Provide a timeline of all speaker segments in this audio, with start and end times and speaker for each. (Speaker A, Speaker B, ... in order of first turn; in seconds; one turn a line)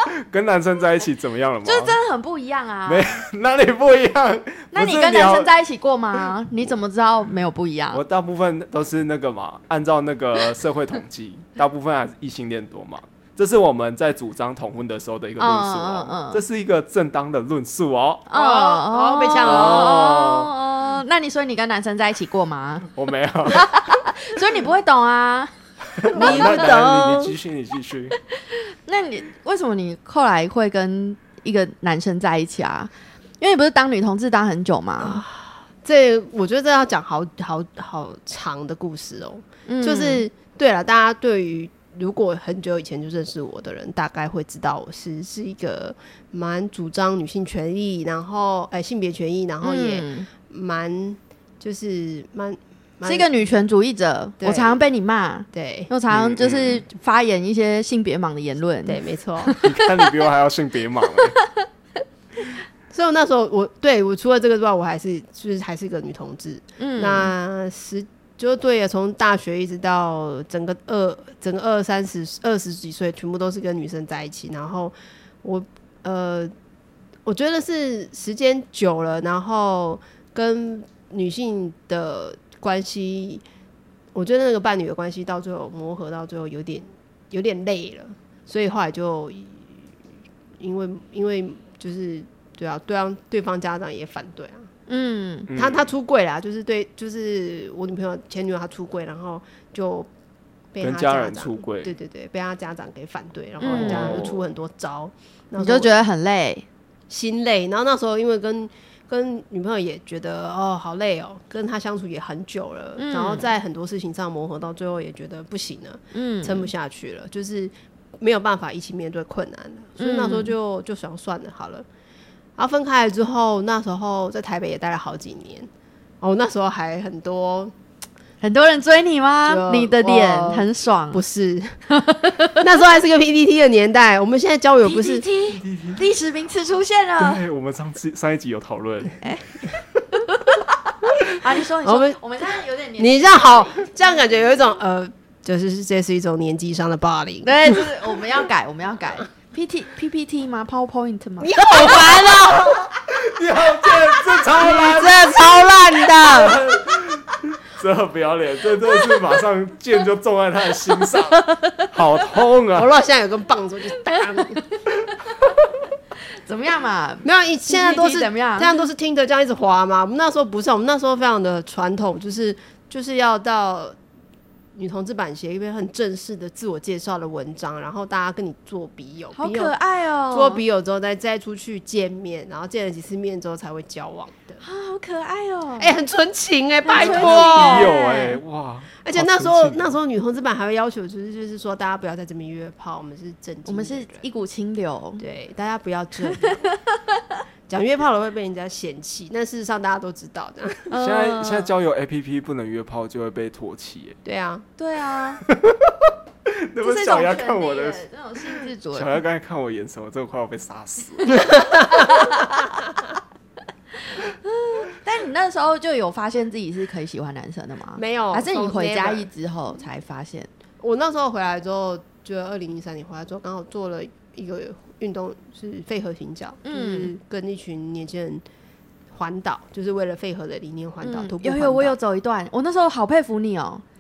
Speaker A: 0.2-2.0
Speaker B: 1.6-3.1
Speaker A: 2.9-5.5
Speaker B: 4.7-8.0
Speaker A: 7.9-18.3
Speaker B: 15.4-16.4
Speaker B: 18.3-22.9
Speaker C: 18.3-20.0
Speaker A: 19.4-20.5
Speaker A: 22.9-23.7
Speaker B: 23.5-25.5
Speaker A: 26.0-28.2
Speaker B: 26.1-26.6
Speaker C: 26.1-27.4
Speaker B: 28.8-35.2
Speaker C: 35.0-53.4
Speaker B: 39.7-40.2
Speaker B: 49.6-50.3
Speaker B: 53.0-59.7
Speaker C: 54.4-54.8
Speaker C: 55.5-55.9
Speaker A: 56.1-56.8
Speaker C: 58.9-59.6
Speaker A: 59.6-61.4
Speaker C: 62.9-76.5
Speaker B: 66.8-67.3
Speaker C: 77.3-83.4
Speaker C: 84.1-89.8
Speaker C: 90.6-94.7
Speaker B: 94.9-95.5
Speaker A: 95.5-95.9
Speaker C: 95.5-100.1
Speaker C: 100.7-105.9
Speaker A: 100.8-101.9
Speaker B: 103.6-104.3
Speaker A: 103.7-104.3
Speaker B: 105.6-106.7
Speaker C: 107.1-121.9
Speaker B: 113.0-113.5
Speaker B: 116.1-116.7
Speaker B: 120.0-120.5
Speaker C: 122.6-125.7
Speaker C: 126.2-127.7
Speaker B: 128.4-131.2
Speaker C: 129.5-131.8
Speaker B: 131.9-132.6
Speaker C: 132.6-135.2
Speaker B: 134.8-137.4
Speaker A: 135.6-136.0
Speaker A: 137.2-139.2
Speaker B: 139.2-139.5
Speaker B: 141.2-143.9
Speaker C: 141.8-142.2
Speaker C: 143.0-147.9
Speaker B: 147.4-152.1
Speaker C: 151.4-152.9
Speaker A: 151.9-162.9
Speaker C: 154.3-156.6
Speaker B: 161.6-161.9
Speaker C: 162.8-164.6
Speaker B: 164.1-164.6
Speaker B: 166.4-168.9
Speaker C: 167.2-174.0
Speaker C: 174.8-179.8
Speaker B: 179.3-180.6
Speaker C: 180.3-184.6
Speaker B: 184.6-186.0
Speaker C: 185.8-187.9
Speaker B: 186.8-188.4
Speaker A: 187.0-190.0
Speaker C: 189.0-194.3
Speaker B: 193.7-195.2
Speaker C: 195.2-196.6
Speaker B: 196.2-197.4
Speaker C: 197.7-200.9
Speaker B: 200.9-201.7
Speaker A: 201.0-204.2
Speaker C: 204.2-204.7
Speaker B: 204.8-205.4
Speaker A: 205.5-206.1
Speaker A: 206.7-211.6
Speaker B: 206.8-209.2
Speaker B: 211.2-212.6
Speaker C: 211.3-212.1
Speaker B: 214.1-220.5
Speaker C: 218.0-219.3
Speaker C: 220.8-228.4
Speaker B: 226.7-227.1
Speaker C: 229.1-232.0
Speaker B: 231.0-233.8